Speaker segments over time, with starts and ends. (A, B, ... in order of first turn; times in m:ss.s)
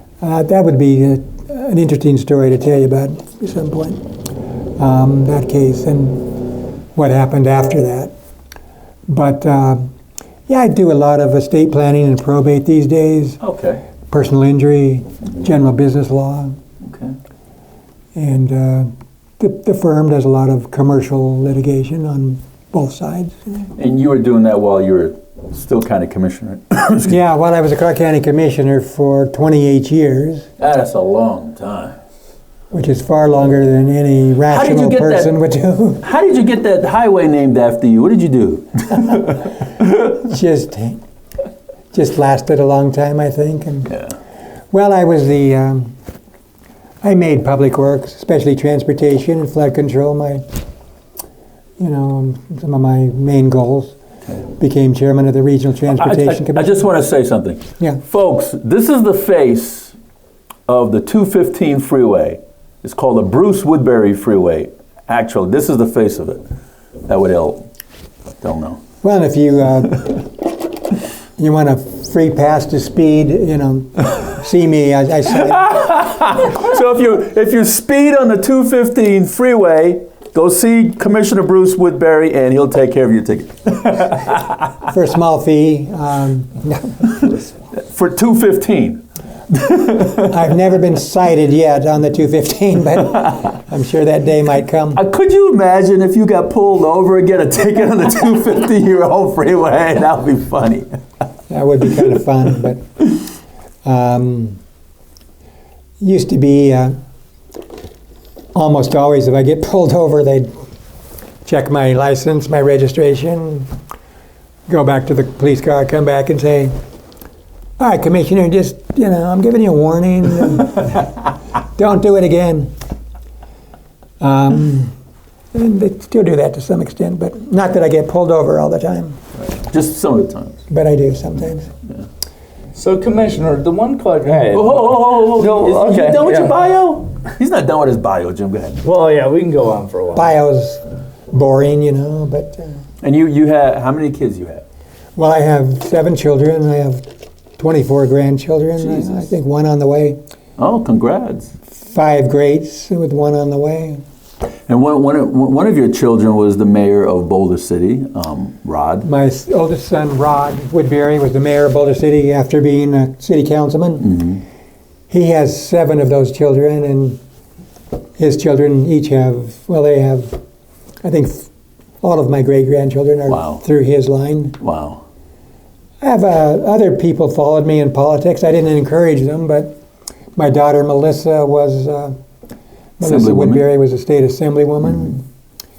0:00.2-0:04.0 A
0:04.8-0:06.4 A
0:06.9-0:08.1 A
0:09.1-0:09.9 A
0:10.5-0:13.4 A
0:13.4-0:13.8 B
0:14.1-0:16.6 A
0:16.8-0:17.2 B
0:18.1-0:23.7 A
0:23.8-0:27.2 B
0:27.1-0:30.5 A
0:30.6-0:32.0 B
0:32.7-0:36.0 A
0:34.5-0:35.3 B
0:36.0-0:39.4 B
0:40.0-0:41.0 A
0:41.9-0:44.0 A
0:44.7-0:46.0 A
0:47.0-0:50.4 A
0:51.8-0:54.0 A
0:54.6-0:56.9 A
0:55.9-1:00.0 B
1:00.7-1:06.4 B
1:07.1-1:07.7 B
1:08.4-1:08.8 B
1:09.0-1:10.3 A
1:11.4-1:15.9 A
1:15.5-1:24.6 B
1:24.8-1:27.5 A
1:27.8-1:30.5 B
1:30.2-1:35.0 A
1:35.0-1:40.9 B
1:41.5-1:43.1 A
1:43.8-1:44.6 A
1:46.0-1:47.0 A
1:48.5-1:50.5 A
1:51.4-1:53.7 A
1:54.7-1:56.7 A
1:57.8-2:01.1 A
2:01.8-2:02.7 A
2:04.2-2:04.9 A
2:05.5-2:09.2 A
2:09.4-2:10.6 B
2:10.7-2:11.7 A
2:12.8-2:16.6 C
2:14.5-2:18.8 B
2:18.8-2:20.3 C
2:20.1-2:22.7 A
2:23.0-2:24.6 B
2:25.2-2:27.0 A
2:27.6-2:30.2 A
2:28.9-2:29.3 B
2:30.6-2:31.5 B
2:31.8-2:34.0 A
2:34.7-2:39.1 B
2:39.0-2:44.4 A
2:45.1-2:47.2 A
2:48.2-2:50.4 A
2:51.0-2:51.5 A
2:52.0-2:54.6 A
2:53.3-2:53.6 B
2:54.6-2:55.0 B
2:56.0-2:59.7 A
3:00.4-3:02.2 A
3:03.0-3:05.2 A
3:03.0-3:03.6 B